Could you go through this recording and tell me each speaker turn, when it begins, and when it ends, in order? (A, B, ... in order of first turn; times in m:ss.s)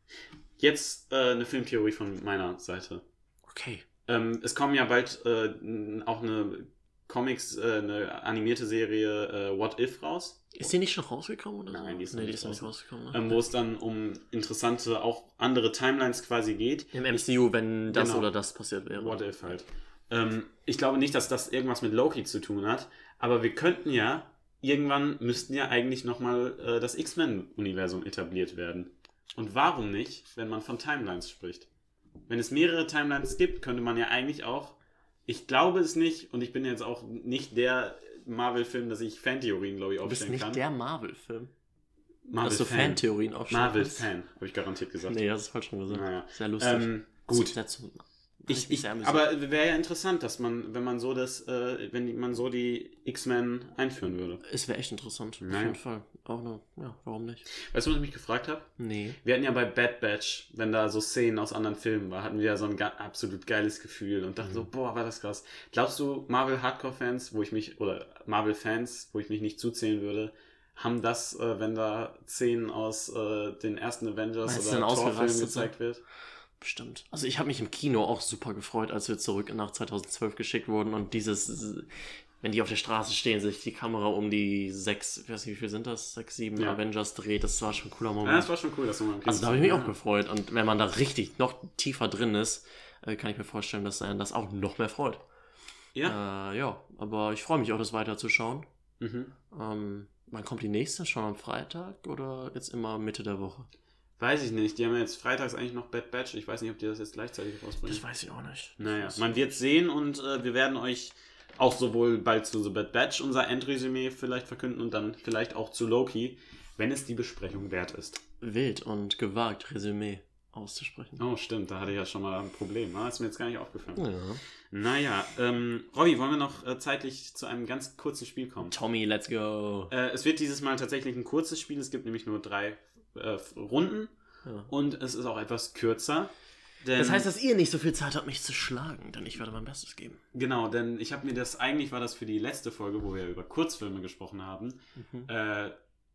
0:00.6-0:03.0 A
0:03.5-0:03.8 B
0:04.1-0:10.6 A
0:10.5-0:13.2 B
0:11.7-0:17.2 A
0:16.9-0:19.2 B
0:17.9-0:18.3 A
0:19.0-0:31.7 A
0:32.3-0:40.6 A
0:40.0-0:41.5 B
0:42.3-0:45.2 A
0:42.4-0:44.1 B
0:45.1-0:49.2 B
0:45.9-0:47.6 A
0:48.5-0:54.4 A
0:54.4-0:57.5 B
0:55.4-0:55.8 A
0:57.6-0:58.7 A
0:58.8-0:59.2 B
0:59.2-1:16.0 A
1:14.4-1:15.7 B
1:16.6-1:21.9 B
1:22.4-1:28.5 B
1:28.2-1:30.0 A
1:29.2-1:35.2 B
1:36.0-1:38.7 B
1:39.0-1:39.3 A
1:39.5-1:43.7 B
1:44.2-1:48.0 A
1:47.8-1:49.6 B
1:48.8-1:58.2 A
1:58.4-2:01.2 B
2:01.2-2:04.1 A
2:04.0-2:04.4 B
2:04.7-2:08.7 A
2:08.6-2:09.9 B
2:09.9-2:14.1 A
2:14.5-2:14.7 B
2:14.7-2:16.3 A
2:16.8-2:17.3 A
2:17.0-2:20.2 B
2:20.3-2:25.8 A
2:25.0-2:25.3 B